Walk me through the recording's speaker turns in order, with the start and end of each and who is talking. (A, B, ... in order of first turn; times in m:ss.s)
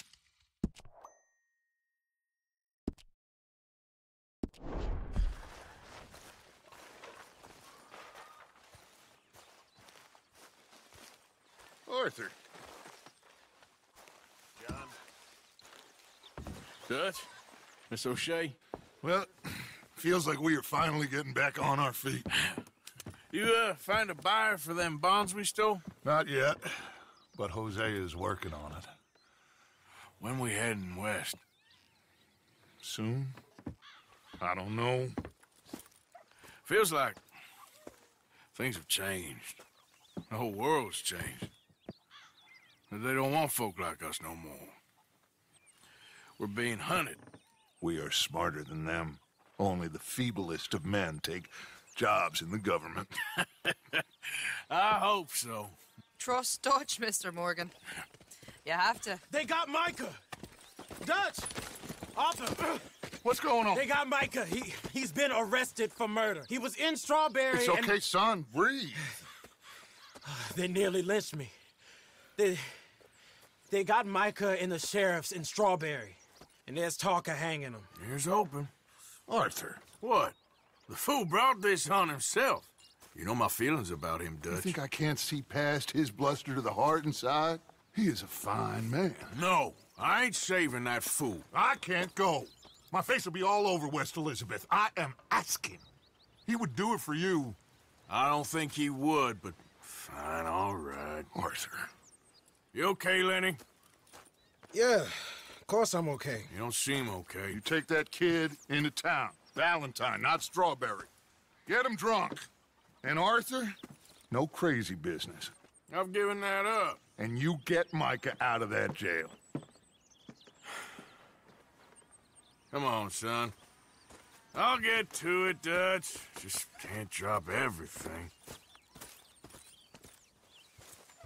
0:11.9-0:12.3 A
0:16.9-0:17.3 B
0:17.9-0:18.6 B
0:19.0-0:22.3 A
0:23.3-0:25.8 B
0:26.0-0:29.0 A
0:30.2-0:31.4 B
0:32.8-0:33.4 A
0:34.4-0:35.2 A
0:36.7-0:37.2 B
0:38.5-0:39.6 B
0:40.3-0:41.5 B
0:42.9-0:44.8 B
0:46.4-0:47.2 B
0:47.8-0:53.2 A
0:53.4-0:55.8 B
0:56.2-0:57.7 C
0:58.6-0:59.2 C
0:59.3-1:00.2 D
1:01.0-1:01.5 D
1:02.1-1:02.8 D
1:03.2-1:03.8 A
1:03.7-1:08.0 D
1:07.5-1:09.0 A
1:10.2-1:11.5 D
1:12.4-1:12.8 D
1:13.7-1:17.9 D
1:18.0-1:18.7 B
1:19.3-1:19.8 A
1:19.9-1:20.4 B
1:20.9-1:24.8 B
1:24.5-1:29.4 A
1:29.3-1:31.4 B
1:31.5-1:35.8 A
1:36.5-1:37.6 A
1:38.1-1:41.3 B
1:41.3-1:41.9 A
1:42.7-1:43.6 B
1:44.7-1:46.5 D
1:46.5-1:47.6 B
1:47.5-1:51.1 A
1:51.7-1:52.5 A
1:53.0-1:53.8 A
1:54.3-1:55.5 A
1:55.9-1:57.0 B
1:57.2-1:59.4 A
2:02.7-2:03.5 B
2:04.5-2:08.3 B